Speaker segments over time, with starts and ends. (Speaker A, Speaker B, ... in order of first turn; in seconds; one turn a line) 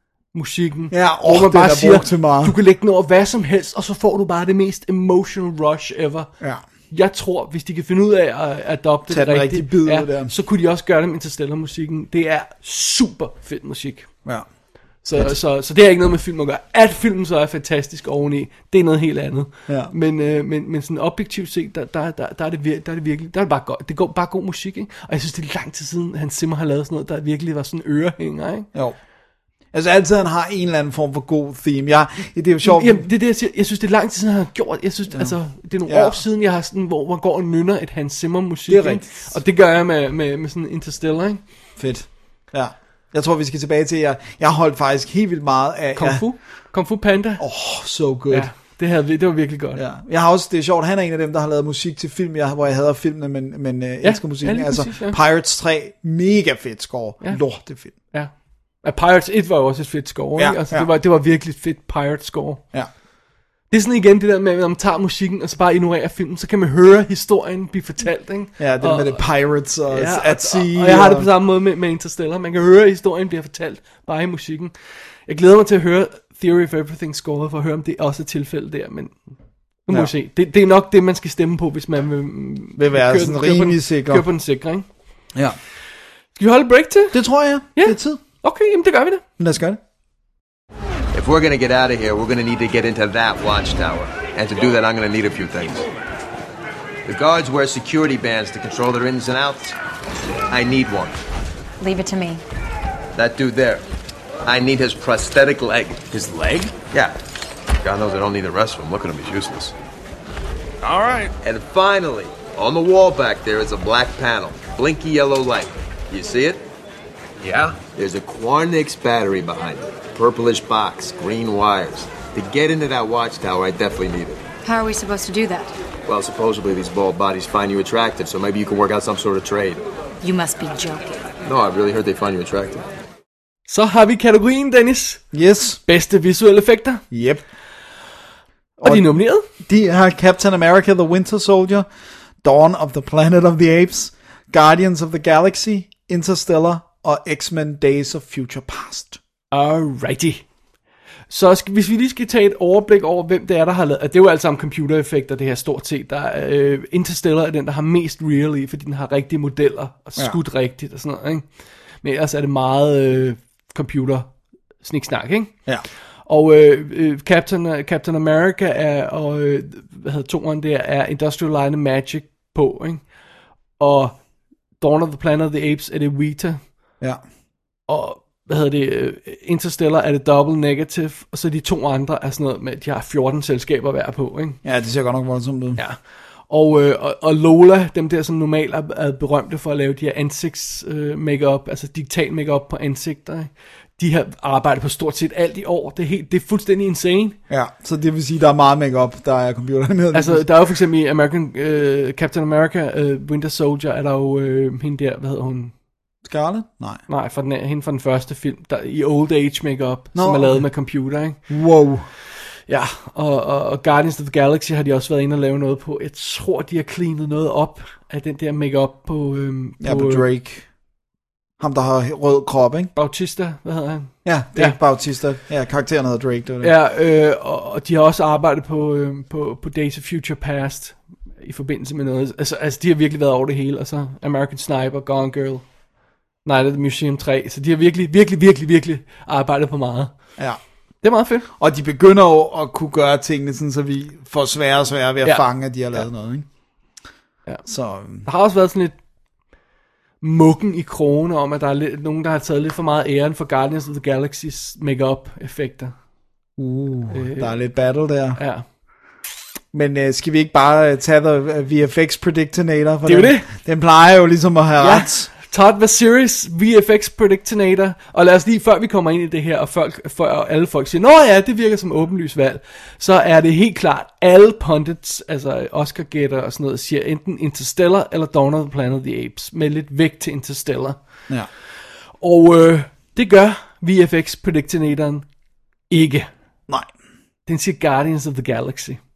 Speaker A: 0.3-6.3
Speaker B: 0.9-2.6
Speaker A: 6.9-14.1
Speaker B: 9.1-10.3
Speaker A: 15.0-28.7
Speaker B: 29.7-33.0
Speaker A: 32.6-41.4
Speaker B: 35.9-36.2
Speaker B: 38.7-39.4
Speaker B: 41.8-46.3
Speaker A: 46.0-47.4
Speaker B: 47.4-48.5
Speaker A: 48.3-49.8
Speaker B: 49.8-57.9
Speaker A: 54.0-55.2
Speaker A: 58.8-62.6
Speaker B: 60.4-60.9
Speaker A: 63.7-69.2
Speaker B: 68.6-71.3
Speaker A: 69.9-74.7
Speaker A: 75.3-79.2
Speaker A: 79.9-84.9
Speaker B: 82.8-84.2
Speaker A: 86.4-87.2
Speaker B: 87.1-88.2
Speaker A: 87.7-89.2
Speaker B: 89.4-89.8
Speaker C: 91.1-95.9
Speaker C: 97.1-99.8
Speaker C: 100.5-101.2
Speaker D: 101.8-102.4
Speaker C: 103.2-103.8
Speaker C: 104.5-107.2
Speaker C: 107.8-109.7
Speaker C: 110.8-116.6
Speaker C: 117.4-124.4
Speaker D: 124.6-125.7
Speaker C: 126.1-129.8
Speaker D: 130.2-131.3
Speaker C: 131.4-132.8
Speaker A: 133.7-135.2
Speaker B: 135.3-135.8
Speaker A: 135.9-137.0
Speaker B: 137.1-137.4
Speaker A: 138.8-139.5
Speaker B: 138.8-141.9
Speaker B: 142.4-149.2
Speaker A: 149.5-150.4
Speaker A: 151.3-161.4
Speaker A: 162.0-164.3
Speaker A: 164.8-165.7
Speaker A: 166.3-173.0
Speaker A: 173.8-174.2
Speaker A: 174.8-176.6
Speaker A: 177.9-184.6
Speaker B: 184.6-185.8
Speaker A: 185.8-197.4
Speaker B: 197.5-200.5
Speaker A: 200.1-205.7
Speaker B: 206.2-207.0
Speaker A: 207.1-211.4
Speaker B: 210.1-210.6
Speaker B: 211.5-212.1
Speaker A: 212.7-220.3
Speaker B: 219.8-220.7
Speaker B: 221.6-222.9
Speaker A: 222.9-224.8
Speaker B: 224.2-226.7
Speaker A: 226.6-235.7
Speaker A: 236.4-240.2
Speaker A: 241.0-241.5
Speaker B: 241.6-246.5
Speaker A: 245.2-246.1
Speaker B: 247.7-248.3
Speaker A: 248.2-249.0
Speaker A: 250.2-255.9
Speaker B: 256.6-258.4
Speaker A: 257.1-257.5
Speaker A: 258.4-258.6
Speaker B: 259.7-265.3
Speaker A: 263.1-263.5
Speaker A: 264.8-281.0
Speaker A: 282.2-285.3
Speaker A: 285.9-286.3
Speaker A: 287.5-289.0